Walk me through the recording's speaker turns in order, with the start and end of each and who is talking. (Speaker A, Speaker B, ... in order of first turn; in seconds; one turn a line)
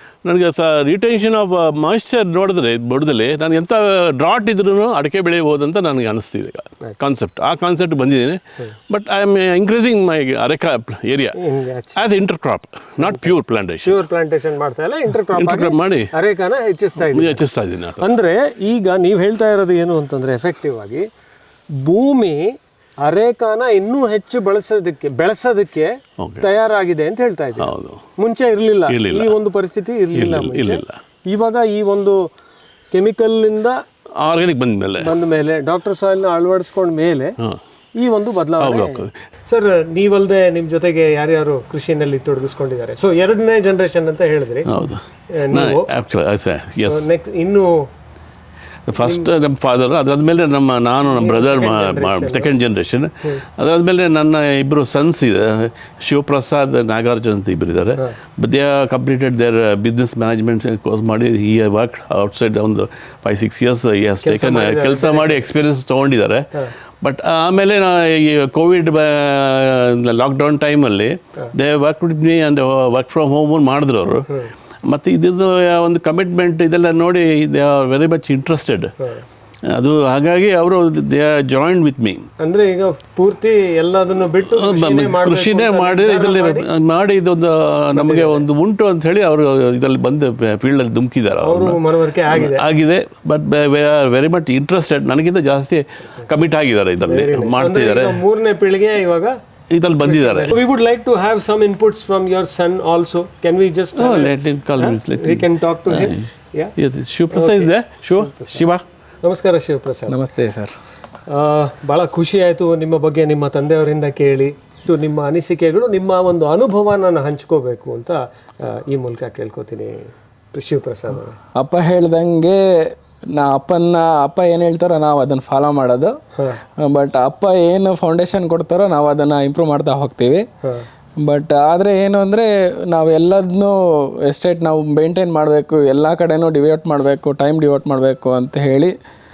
Speaker A: 0.2-11.3
Speaker B: 11.4-12.0
Speaker A: 11.9-14.0
Speaker B: 13.0-17.4
Speaker A: 15.3-16.1
Speaker A: 17.0-18.0
Speaker B: 18.0-21.1
Speaker B: 21.8-22.5
Speaker B: 23.0-32.3
Speaker A: 26.2-26.5
Speaker A: 27.6-28.0
Speaker A: 28.9-29.3
Speaker A: 30.1-31.0
Speaker B: 32.9-33.8
Speaker A: 34.2-35.1
Speaker B: 35.0-37.4
Speaker B: 38.0-44.7
Speaker A: 38.6-39.1
Speaker A: 44.7-47.0
Speaker B: 45.4-45.9
Speaker B: 46.8-47.9
Speaker A: 48.9-74.3
Speaker B: 49.0-49.3
Speaker B: 51.1-52.5
Speaker B: 64.2-65.4
Speaker A: 74.8-78.9
Speaker A: 79.7-82.3
Speaker B: 82.4-86.7
Speaker A: 84.5-98.2
Speaker B: 87.9-88.4
Speaker B: 91.4-92.6
Speaker B: 97.0-99.3
Speaker A: 99.7-100.5
Speaker B: 99.9-106.7
Speaker A: 104.0-108.8
Speaker B: 107.3-108.6
Speaker B: 109.2-110.2
Speaker C: 110.1-110.7
Speaker B: 111.3-121.4
Speaker C: 121.5-126.1
Speaker C: 126.8-130.4
Speaker C: 131.2-138.9